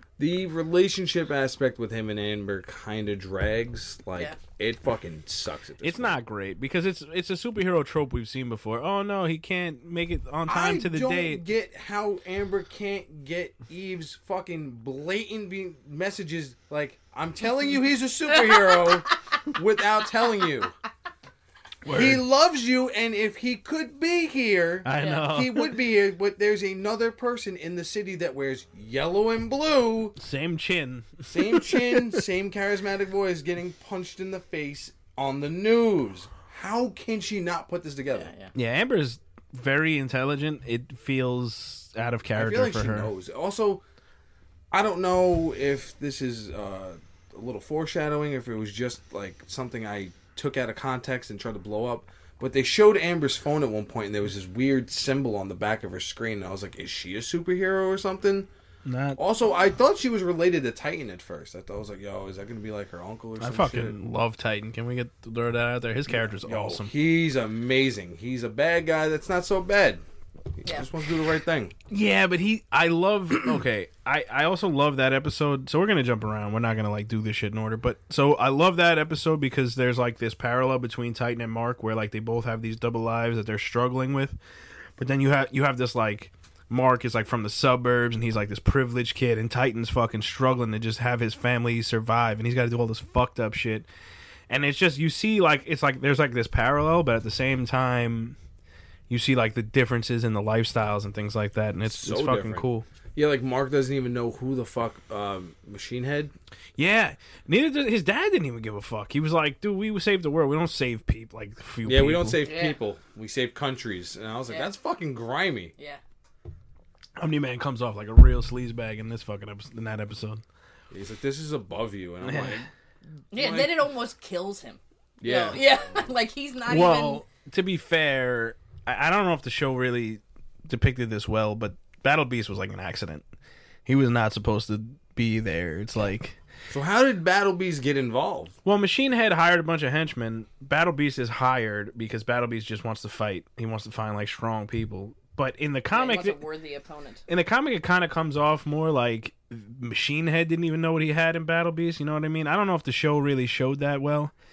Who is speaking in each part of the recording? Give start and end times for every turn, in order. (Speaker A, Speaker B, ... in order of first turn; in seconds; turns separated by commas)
Speaker A: 0.2-6.2, Speaker B: 5.8-11.4, Speaker A: 10.5-20.7, Speaker C: 18.3-19.0, Speaker B: 21.9-22.2, Speaker A: 21.9-30.1, Speaker B: 24.8-25.8, Speaker C: 25.0-25.2, Speaker B: 30.2-32.0, Speaker A: 31.3-38.3, Speaker C: 38.1-38.5, Speaker B: 38.5-43.1, Speaker A: 42.3-43.8, Speaker A: 44.7-58.5, Speaker B: 58.9-59.2, Speaker A: 59.2-63.9, Speaker B: 63.4-66.9, Speaker A: 66.1-70.0, Speaker A: 70.6-71.7, Speaker B: 71.9-84.4, Speaker B: 85.0-93.9, Speaker B: 94.5-98.4, Speaker B: 99.1-102.8, Speaker A: 101.8-106.3, Speaker B: 106.8-112.4, Speaker A: 111.8-115.7, Speaker C: 112.4-112.8, Speaker B: 117.2-120.4, Speaker A: 120.9-122.7, Speaker B: 122.2-122.6, Speaker C: 123.3-127.2, Speaker A: 123.3-123.7, Speaker A: 125.2-125.6, Speaker B: 126.7-133.2, Speaker B: 133.8-136.4, Speaker A: 136.7-138.6, Speaker B: 138.7-146.4, Speaker C: 145.9-147.2, Speaker B: 147.3-154.3